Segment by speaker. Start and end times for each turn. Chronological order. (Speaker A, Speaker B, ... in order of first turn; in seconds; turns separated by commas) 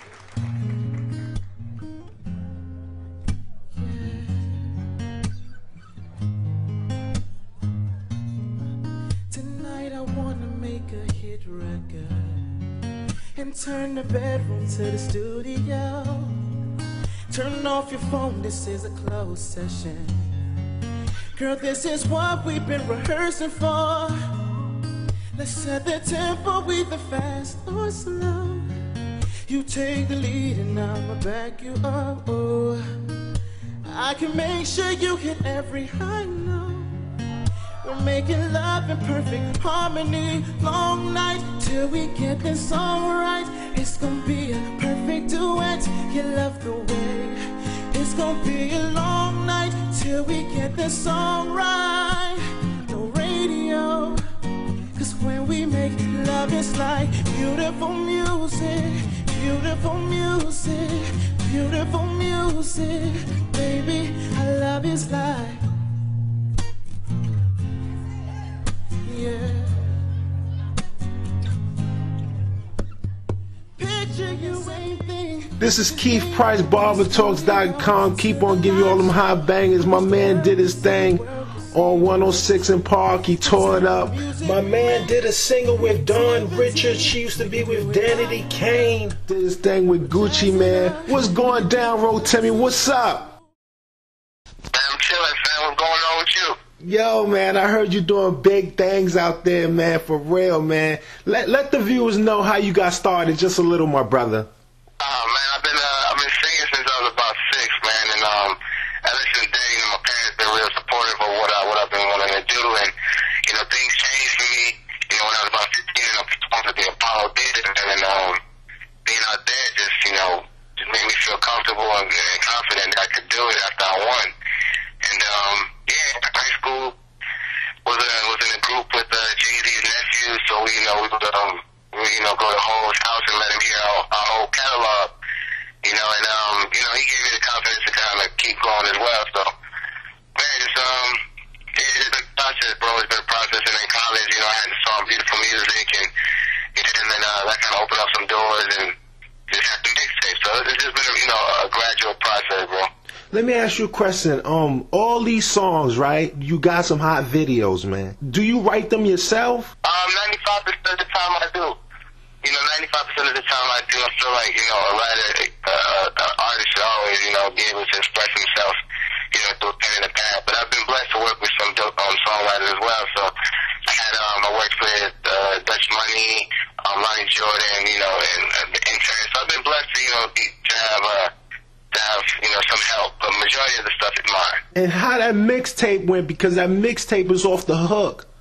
Speaker A: 3.8-4.7, Speaker A: 9.3-12.5, Speaker A: 13.3-16.5, Speaker A: 17.3-20.3, Speaker A: 21.4-24.2, Speaker A: 25.4-28.7, Speaker A: 29.5-32.8, Speaker A: 33.9-36.9, Speaker A: 37.8-47.4, Speaker A: 47.9-54.2, Speaker A: 54.9-65.6, Speaker A: 69.0-69.9, Speaker A: 73.8-82.8, Speaker B: 75.6-93.3, Speaker A: 83.4-88.9, Speaker A: 90.0-92.8, Speaker C: 94.7-96.6, Speaker B: 96.8-104.5, Speaker C: 105.0-112.9, Speaker C: 113.5-118.4, Speaker C: 119.0-124.3, Speaker C: 125.0-127.0, Speaker C: 127.8-135.2, Speaker C: 135.8-139.5, Speaker C: 140.3-141.2, Speaker C: 141.8-146.1, Speaker C: 146.8-148.9, Speaker C: 149.5-152.9, Speaker B: 153.3-159.7, Speaker C: 159.8-161.8, Speaker C: 162.4-168.8, Speaker C: 169.3-173.3, Speaker C: 173.9-181.3, Speaker C: 181.9-184.6, Speaker B: 184.8-188.3